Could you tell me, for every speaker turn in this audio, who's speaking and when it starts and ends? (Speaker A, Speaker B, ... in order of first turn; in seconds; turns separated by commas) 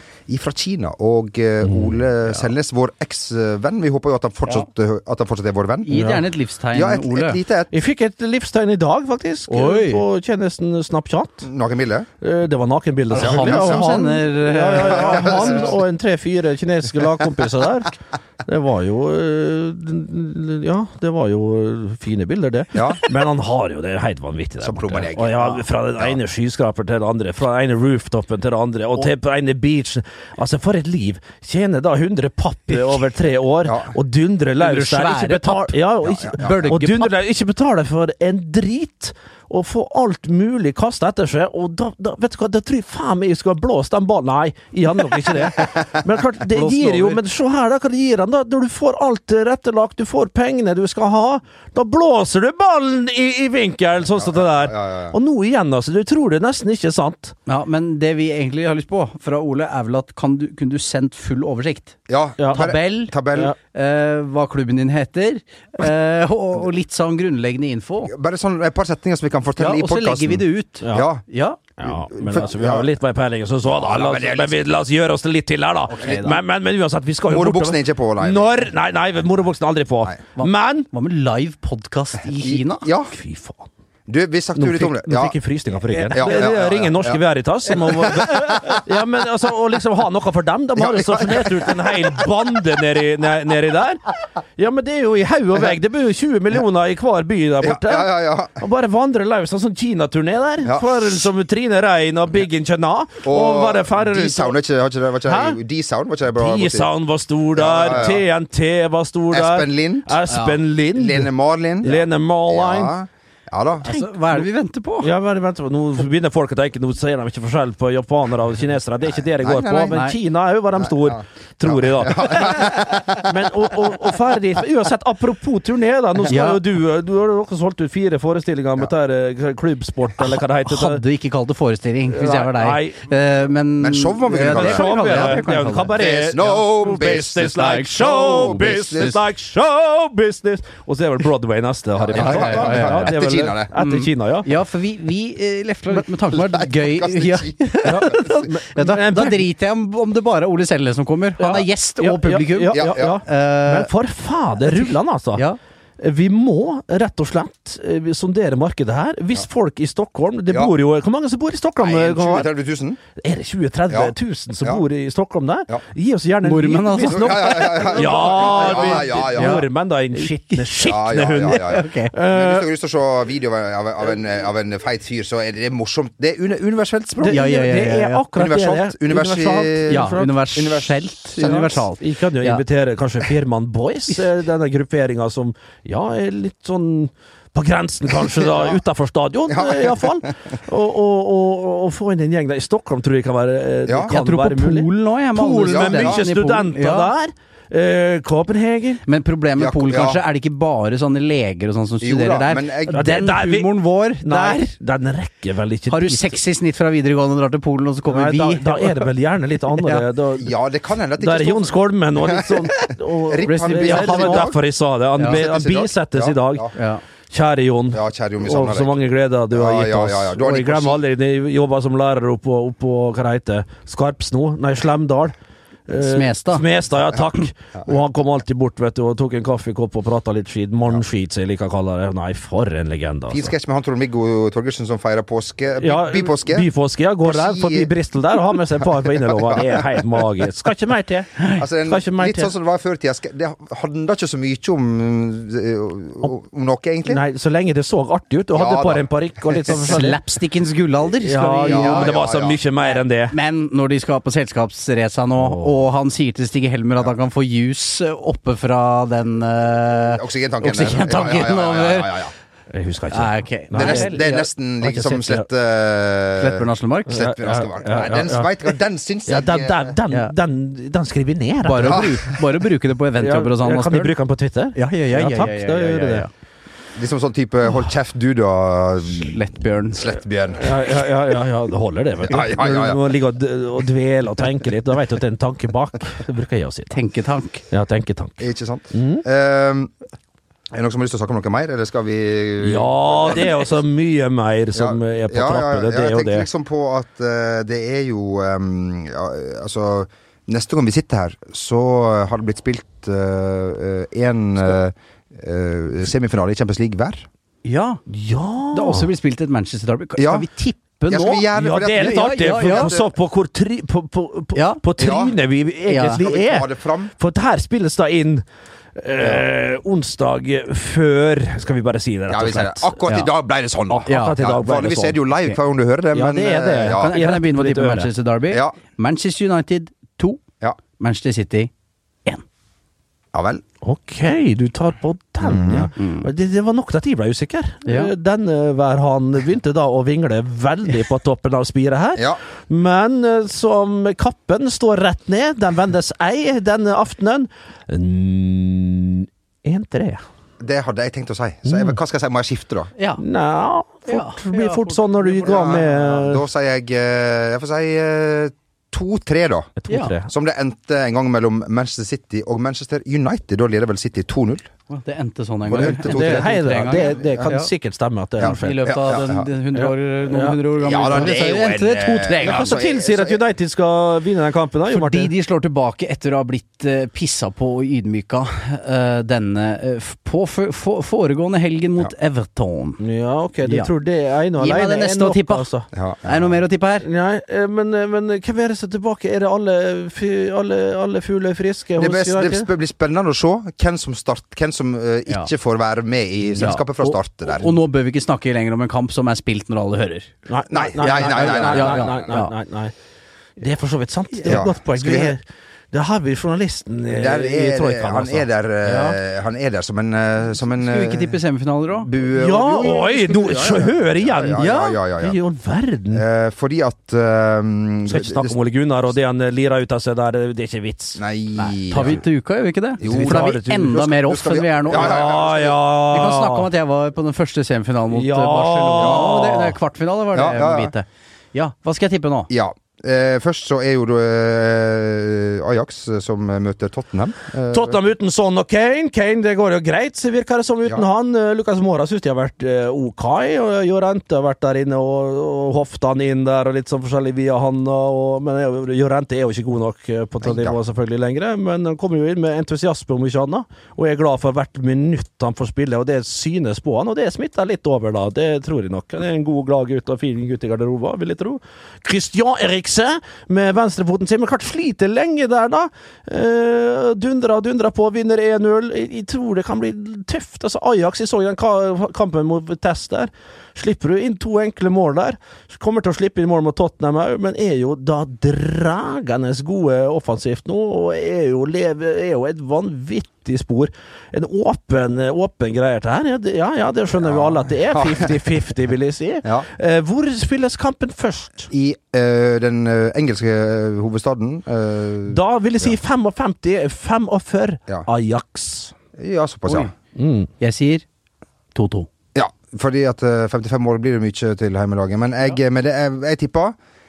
Speaker A: 0.3-5.9, Speaker B: 1.6-2.0, Speaker C: 5.8-7.4, Speaker B: 5.9-6.2, Speaker A: 6.7-7.7, Speaker B: 7.7-11.4, Speaker C: 9.5-10.0, Speaker A: 11.4-12.1, Speaker B: 12.2-17.9, Speaker C: 13.1-15.6, Speaker A: 13.2-13.9, Speaker A: 14.9-15.7, Speaker B: 18.4-57.3, Speaker A: 22.7-23.0, Speaker A: 24.6-26.2, Speaker C: 32.7-33.0, Speaker A: 33.6-33.9, Speaker C: 34.6-37.1, Speaker A: 36.0-36.7, Speaker C: 46.5-47.2, Speaker A: 54.1-55.1, Speaker C: 57.5-62.0, Speaker A: 62.1-63.5, Speaker B: 62.4-62.6, Speaker C: 62.5-68.1, Speaker A: 68.1-71.2, Speaker C: 69.6-71.6, Speaker B: 70.8-71.1, Speaker B: 71.8-80.9, Speaker A: 71.8-72.9, Speaker A: 73.6-74.6, Speaker C: 75.8-76.4, Speaker A: 77.3-78.6, Speaker C: 80.3-82.8, Speaker A: 82.4-83.1, Speaker B: 83.1-83.7, Speaker A: 84.1-85.3, Speaker B: 84.5-104.5, Speaker A: 86.0-88.8, Speaker A: 90.8-92.2, Speaker A: 97.6-98.7, Speaker A: 100.6-101.2, Speaker A: 103.2-106.9, Speaker B: 105.3-105.6, Speaker B: 106.3-111.3, Speaker A: 107.5-108.2, Speaker A: 109.3-110.1, Speaker C: 110.3-110.6, Speaker A: 110.9-113.8, Speaker B: 111.8-112.9, Speaker C: 113.8-115.1, Speaker B: 113.9-114.5, Speaker B: 115.0-131.0, Speaker A: 119.4-120.0, Speaker C: 119.9-120.2, Speaker A: 120.8-123.3, Speaker C: 126.3-126.6, Speaker C: 130.2-136.0, Speaker B: 132.1-133.0, Speaker A: 133.8-135.4, Speaker B: 134.3-144.5, Speaker A: 135.9-139.1, Speaker C: 137.6-139.2, Speaker A: 142.0-143.7, Speaker C: 142.1-143.1, Speaker C: 143.8-153.9, Speaker A: 146.3-148.1, Speaker B: 147.8-149.4, Speaker B: 151.4-155.4, Speaker A: 152.7-153.2, Speaker C: 154.6-155.6, Speaker B: 156.0-162.5, Speaker A: 161.8-163.0, Speaker B: 163.1-172.7, Speaker A: 163.9-164.8, Speaker C: 166.4-170.6, Speaker A: 167.1-169.7, Speaker A: 170.8-177.4, Speaker C: 171.4-172.1, Speaker B: 177.2-180.3, Speaker C: 177.2-178.2, Speaker A: 178.3-181.6, Speaker C: 179.9-182.6, Speaker B: 181.4-199.0, Speaker A: 188.4-188.8, Speaker A: 189.5-190.1, Speaker C: 194.1-197.1, Speaker A: 195.7-196.2, Speaker C: 199.0-204.7, Speaker A: 199.6-200.2, Speaker A: 202.0-203.2, Speaker B: 202.9-206.4, Speaker C: 205.9-209.1, Speaker B: 208.1-210.5, Speaker C: 209.7-210.0, Speaker A: 210.3-214.6, Speaker B: 211.2-216.7, Speaker C: 213.4-214.5, Speaker A: 215.2-216.7, Speaker C: 216.7-217.0, Speaker B: 217.3-225.3, Speaker A: 217.9-221.0, Speaker B: 225.9-233.5, Speaker C: 225.9-226.6, Speaker A: 233.3-236.7, Speaker B: 235.8-242.5, Speaker A: 237.2-237.9, Speaker A: 239.0-240.0, Speaker A: 241.6-247.2, Speaker B: 247.1-250.2, Speaker A: 248.5-249.1, Speaker C: 249.7-252.1, Speaker B: 251.2-253.3, Speaker A: 251.6-252.6, Speaker C: 252.8-262.2, Speaker B: 255.4-255.8, Speaker A: 260.1-262.3, Speaker B: 262.7-265.4, Speaker C: 263.1-264.4, Speaker A: 263.7-269.9, Speaker C: 266.4-267.1, Speaker B: 267.1-268.7, Speaker B: 269.3-272.4, Speaker C: 271.6-274.1, Speaker A: 271.8-272.2, Speaker B: 273.2-276.3, Speaker C: 274.7-276.3, Speaker A: 276.9-280.9, Speaker C: 279.2-280.0, Speaker B: 280.5-286.9, Speaker A: 282.3-283.0, Speaker C: 286.9-287.6, Speaker B: 287.7-288.4, Speaker A: 288.4-289.9, Speaker B: 288.9-289.2, Speaker A: 290.7-293.4, Speaker B: 292.6-296.5, Speaker A: 294.7-307.3, Speaker C: 307.6-308.0, Speaker B: 308.1-309.1, Speaker C: 308.7-311.4, Speaker A: 310.2-310.5, Speaker A: 311.1-313.1, Speaker B: 311.1-318.4, Speaker C: 311.9-313.0, Speaker C: 314.5-314.8, Speaker A: 315.0-315.4, Speaker C: 315.9-316.2, Speaker A: 316.1-317.1, Speaker B: 319.0-323.3, Speaker A: 322.3-327.1, Speaker B: 323.9-325.2, Speaker C: 324.1-324.4, Speaker B: 326.1-328.1, Speaker C: 326.9-330.4, Speaker A: 328.5-328.8, Speaker C: 331.0-331.7, Speaker A: 333.3-333.6, Speaker B: 333.8-350.2, Speaker A: 335.4-335.9, Speaker C: 335.9-336.3, Speaker C: 337.9-338.1, Speaker A: 350.6-352.9, Speaker B: 351.6-352.0, Speaker C: 353.0-353.2, Speaker B: 353.2-356.4, Speaker C: 354.1-355.9, Speaker A: 355.4-359.7, Speaker B: 359.8-360.3, Speaker A: 360.2-364.7, Speaker C: 364.9-367.7, Speaker A: 365.7-367.5, Speaker B: 365.7-369.0, Speaker A: 368.4-369.4, Speaker C: 368.4-372.8, Speaker B: 369.7-371.6, Speaker A: 370.8-373.4, Speaker B: 372.4-375.3, Speaker C: 374.9-383.0, Speaker B: 383.0-385.9, Speaker C: 383.6-383.9, Speaker C: 384.6-385.7, Speaker A: 385.9-386.2, Speaker C: 386.2-387.1, Speaker B: 387.0-392.7, Speaker A: 392.0-397.7, Speaker C: 396.6-400.3, Speaker B: 400.5-402.9, Speaker A: 400.7-402.2, Speaker C: 401.1-402.5, Speaker B: 403.6-409.1, Speaker C: 404.3-404.6, Speaker A: 404.4-405.3, Speaker A: 407.1-411.4, Speaker C: 410.7-412.1, Speaker A: 412.0-415.4, Speaker B: 412.3-416.2, Speaker C: 414.5-414.9, Speaker A: 416.1-418.6, Speaker B: 418.1-421.2, Speaker A: 421.2-422.2, Speaker C: 421.6-425.5, Speaker A: 423.0-423.5, Speaker B: 423.0-424.2, Speaker A: 424.2-425.8, Speaker B: 424.8-426.7, Speaker C: 426.0-432.5, Speaker B: 428.1-429.8, Speaker A: 429.0-429.4, Speaker A: 430.3-430.9, Speaker A: 432.5-438.0, Speaker B: 437.7-491.7, Speaker A: 450.4-450.8, Speaker A: 487.2-488.4, Speaker A: 491.7-495.9, Speaker B: 495.3-498.9, Speaker A: 499.1-499.9, Speaker C: 499.6-499.9, Speaker B: 500.1-500.5, Speaker C: 500.6-501.0, Speaker C: 501.7-502.1, Speaker A: 502.3-506.8